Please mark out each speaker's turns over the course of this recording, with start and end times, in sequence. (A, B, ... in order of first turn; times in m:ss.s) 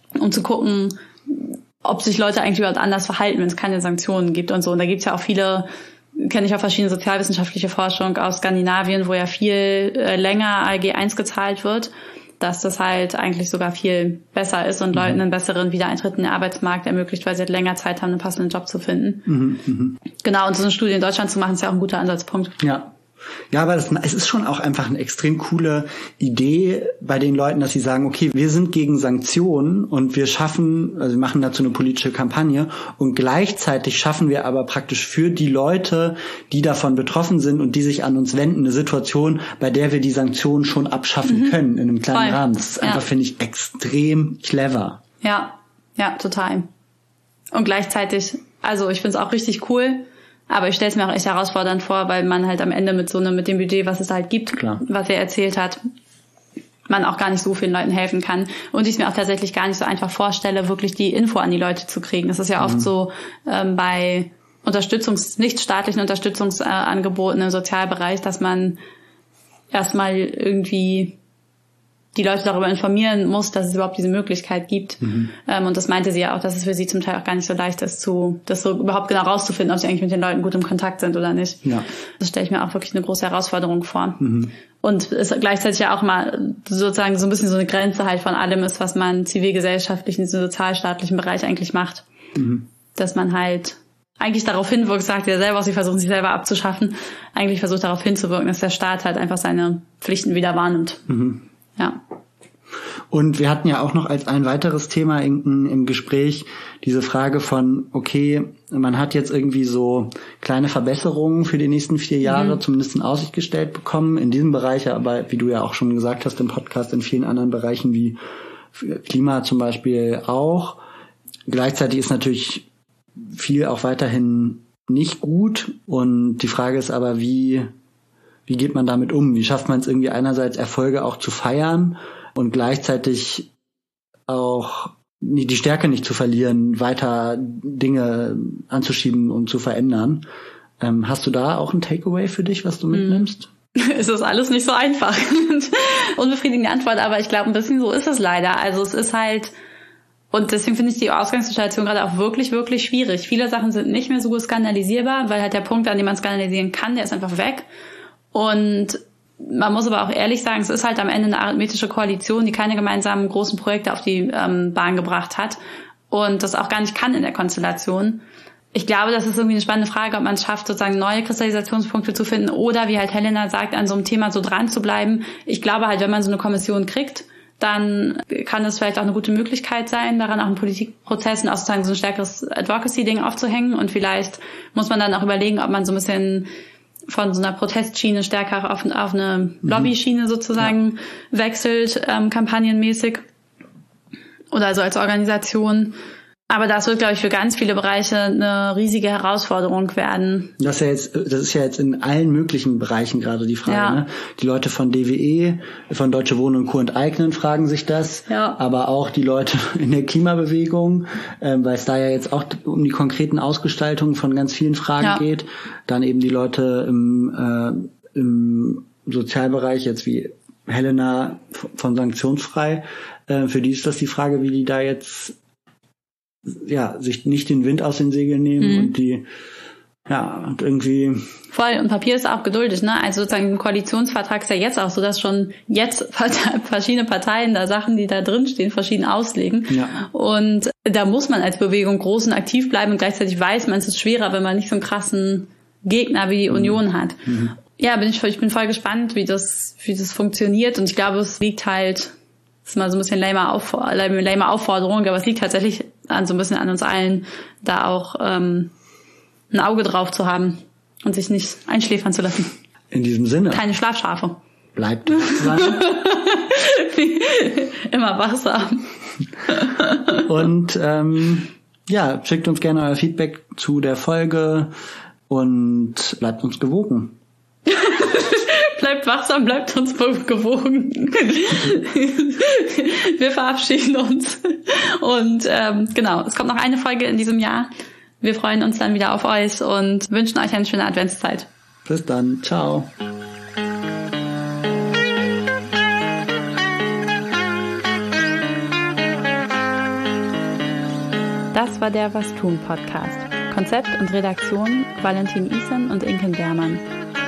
0:00.2-0:19.3 A
0:14.9-0:15.2 B
0:19.3-0:20.0 B
0:20.2-0:22.6 A
0:22.6-0:22.9 B
0:23.5-0:45.0 B
0:41.2-0:41.6 A
0:42.1-0:43.0 A
0:45.2-0:46.7 A
0:47.5-0:55.8 A
0:54.6-0:54.8 B
0:56.9-1:08.8 A
1:02.6-1:02.9 B
1:09.7-1:11.2 A
1:12.2-1:21.7 A
1:15.0-1:15.3 B
1:22.2-1:24.2 A
1:24.2-1:24.5 B
1:24.8-1:32.1 A
1:32.4-1:32.7 B
1:33.0-1:41.1 A
1:41.1-1:41.4 B
1:43.1-1:58.2 B
1:52.3-1:52.6 A
1:58.7-2:00.8 B
2:01.5-2:02.6 B
2:03.2-2:07.7 B
2:08.5-2:13.5 B
2:14.3-2:20.2 B
2:20.8-2:23.5 B
2:22.9-2:29.5 A
2:30.3-2:37.7 A
2:38.3-2:45.6 A
2:46.1-2:48.2 A
2:48.7-3:06.5 A
3:07.1-3:13.2 A
3:09.6-3:09.9 B
3:14.5-3:16.0 A
3:16.5-3:20.5 A
3:20.6-3:45.4 B
3:23.7-3:24.0 A
3:28.3-3:28.6 A
3:46.5-3:49.3 B
3:48.6-3:48.9 A
3:50.1-3:51.3 B
3:51.5-4:12.1 A
3:59.7-4:00.0 B
4:06.5-4:07.6 B
4:12.6-4:18.7 A
4:19.5-4:22.5 A
4:22.9-4:23.6 B
4:23.5-4:24.4 A
4:24.8-4:25.8 B
4:25.2-4:28.9 A
4:29.5-4:30.2 A
4:30.2-4:34.7 B
4:35.3-4:37.2 B
4:37.7-4:51.5 A
4:51.9-4:52.9 B
5:01.5-5:06.8 A